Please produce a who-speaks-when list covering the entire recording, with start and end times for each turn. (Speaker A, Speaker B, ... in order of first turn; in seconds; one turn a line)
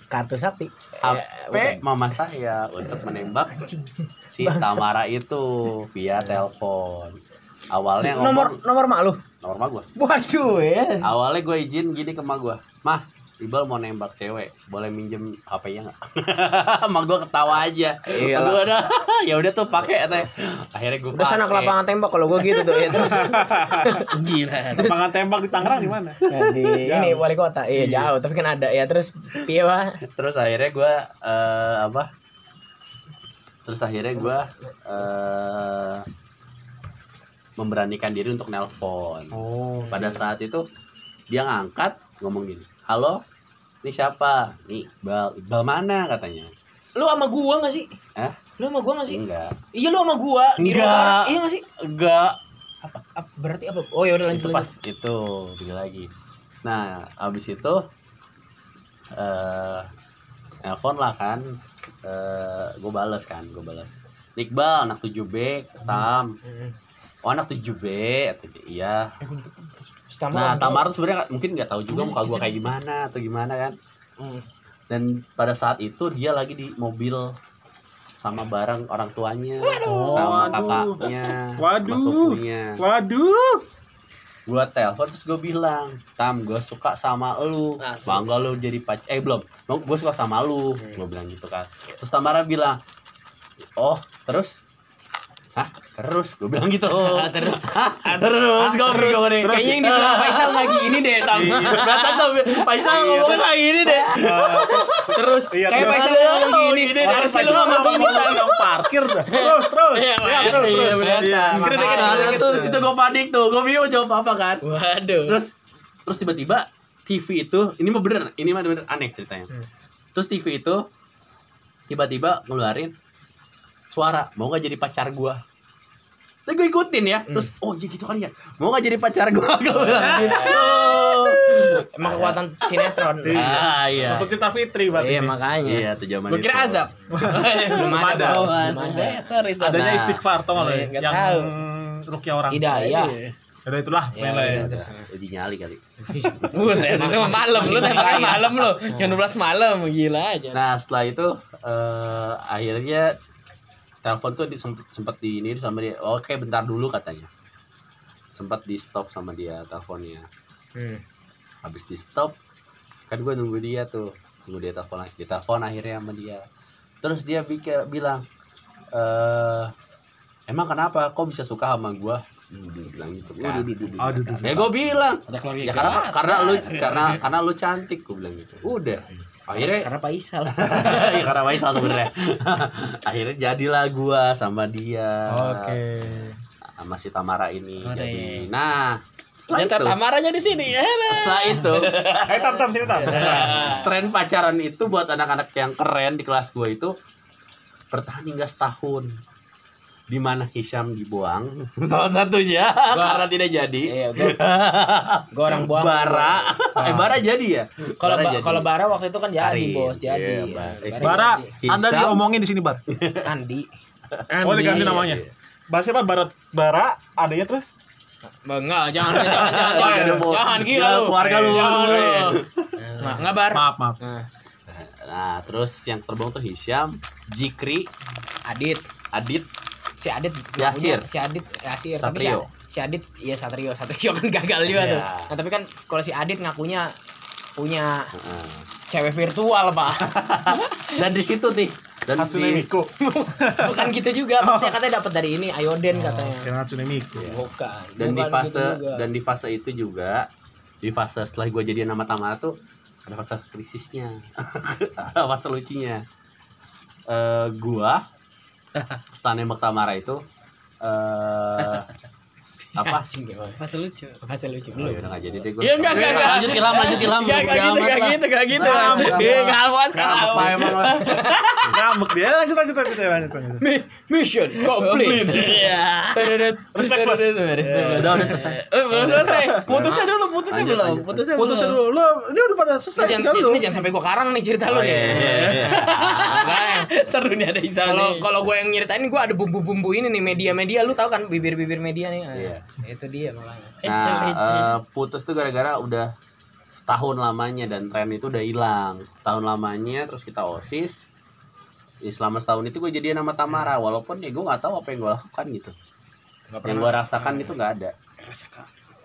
Speaker A: 0.1-1.8
Speaker B: 1.0-3.5
Speaker A: 3.5-4.8
Speaker B: 4.3-7.2
Speaker B: 7.7-8.6
Speaker A: 8.0-9.2
Speaker B: 9.4-9.9
Speaker A: 9.9-11.1
Speaker B: 11.0-21.7
Speaker A: 18.1-18.6
Speaker A: 21.1-24.1
Speaker C: 22.9-24.0
Speaker D: 24.0-24.9
Speaker C: 24.7-26.2
Speaker A: 26.2-30.0
Speaker C: 26.8-27.2
Speaker C: 27.7-28.1
Speaker B: 30.1-32.1
Speaker B: 33.6-36.0
Speaker B: 37.6-40.6
Speaker C: 39.3-40.0
Speaker B: 41.3-43.2
Speaker B: 43.8-46.5
Speaker A: 47.0-47.9
Speaker A: 48.6-49.2
Speaker B: 49.1-49.5
Speaker A: 49.7-51.6
Speaker B: 50.6-53.0
Speaker A: 53.1-54.7
Speaker B: 54.3-56.1
Speaker B: 56.6-57.9
Speaker B: 59.1-59.9
Speaker B: 60.6-66.3
Speaker A: 66.4-66.7
Speaker B: 67.2-69.1
Speaker C: 69.2-69.9
Speaker A: 70.1-70.8
Speaker B: 70.3-73.8
Speaker C: 72.0-72.4
Speaker A: 74.2-74.4
Speaker B: 74.9-77.3
Speaker B: 78.2-82.8
Speaker D: 79.6-80.6
Speaker C: 79.8-83.6
Speaker B: 84.5-92.8
Speaker D: 87.8-88.3
Speaker B: 93.8-94.6
Speaker B: 95.5-104.8
Speaker D: 96.9-99.3
Speaker A: 98.8-101.5
Speaker D: 101.0-105.5
Speaker C: 101.3-101.8
Speaker C: 102.9-103.4
Speaker C: 104.1-106.4
Speaker A: 105.1-108.7
Speaker B: 105.7-107.9
Speaker C: 106.9-112.8
Speaker D: 107.1-108.6
Speaker D: 109.2-112.5
Speaker A: 110.4-112.4
Speaker B: 110.4-110.9
Speaker B: 111.7-114.6
Speaker D: 114.6-115.3
Speaker B: 115.2-115.5
Speaker B: 116.0-119.5
Speaker B: 120.1-120.8
Speaker B: 121.9-122.9
Speaker B: 123.9-125.4
Speaker B: 126.5-134.3
Speaker D: 130.0-131.0
Speaker C: 130.0-130.5
Speaker A: 131.9-133.6
Speaker C: 133.2-135.3
Speaker A: 134.9-139.2
Speaker B: 135.6-136.9
Speaker C: 137.1-138.7
Speaker D: 137.2-141.5
Speaker C: 139.6-142.7
Speaker B: 139.7-140.2
Speaker A: 142.5-143.2
Speaker D: 142.7-143.3
Speaker C: 143.6-144.8
Speaker A: 144.1-145.1
Speaker B: 144.4-146.8
Speaker A: 146.1-149.2
Speaker D: 146.5-150.6
Speaker B: 147.6-148.1
Speaker B: 150.5-153.2
Speaker B: 154.0-157.3
Speaker B: 158.3-160.3
Speaker A: 160.8-161.0
Speaker B: 161.6-162.3
Speaker B: 163.1-166.4
Speaker B: 167.0-168.2
Speaker B: 168.9-169.7
Speaker B: 170.5-172.2
Speaker A: 172.5-174.0
Speaker B: 172.9-179.9
Speaker C: 174.0-174.8
Speaker A: 175.3-176.7
Speaker D: 175.7-177.2
Speaker A: 179.5-181.3
Speaker B: 180.5-185.8
Speaker C: 185.3-186.4
Speaker B: 186.8-190.0
Speaker D: 187.8-188.5
Speaker D: 189.5-193.9
Speaker B: 191.0-192.3
Speaker C: 192.2-193.7
Speaker B: 193.1-196.9
Speaker B: 197.9-199.1
Speaker B: 200.1-208.7
Speaker A: 202.9-203.2
Speaker A: 203.8-204.4
Speaker A: 205.3-206.5
Speaker C: 206.8-207.2
Speaker A: 208.0-211.5
Speaker B: 209.4-212.2
Speaker C: 211.0-212.8
Speaker B: 212.9-213.2
Speaker A: 213.2-213.7
Speaker D: 214.3-215.0
Speaker C: 214.3-217.7
Speaker A: 214.5-214.9
Speaker B: 214.7-215.3
Speaker A: 218.4-222.4
Speaker C: 219.0-220.3
Speaker B: 219.2-222.7
Speaker C: 221.2-221.8
Speaker D: 222.8-223.2
Speaker A: 223.0-224.3
Speaker C: 223.1-224.0
Speaker B: 224.7-227.9
Speaker A: 228.4-228.8
Speaker B: 229.1-229.5
Speaker A: 230.0-236.9
Speaker B: 230.6-231.0
Speaker B: 231.9-232.5
Speaker B: 234.7-235.3
Speaker A: 237.6-238.1
Speaker B: 238.1-238.6
Speaker A: 238.9-240.1
Speaker B: 240.0-242.7
Speaker C: 242.1-244.8
Speaker A: 243.0-246.5
Speaker C: 245.9-247.3
Speaker A: 247.2-249.1
Speaker B: 248.0-250.3
Speaker B: 250.8-256.0
Speaker B: 257.1-258.0
Speaker B: 259.1-260.2
Speaker B: 260.8-261.9
Speaker A: 262.6-263.6
Speaker B: 262.6-263.0
Speaker D: 263.6-264.2
Speaker A: 264.2-265.1
Speaker B: 264.7-271.1
Speaker D: 265.6-271.8
Speaker A: 265.9-267.0
Speaker A: 268.6-271.6
Speaker C: 268.6-269.3
Speaker C: 271.7-273.6
Speaker A: 273.6-276.5
Speaker D: 274.6-281.8
Speaker C: 276.7-278.1
Speaker A: 277.7-278.4
Speaker B: 277.9-281.3
Speaker C: 278.9-279.6
Speaker A: 279.7-280.1
Speaker C: 281.3-283.8
Speaker A: 282.9-286.9
Speaker B: 284.7-286.4
Speaker D: 285.1-288.3
Speaker A: 287.8-293.8
Speaker B: 292.3-292.6
Speaker D: 293.8-294.7
Speaker B: 293.8-296.1
Speaker B: 296.7-301.0
Speaker B: 302.0-305.7
Speaker A: 306.5-307.5
Speaker B: 306.6-308.6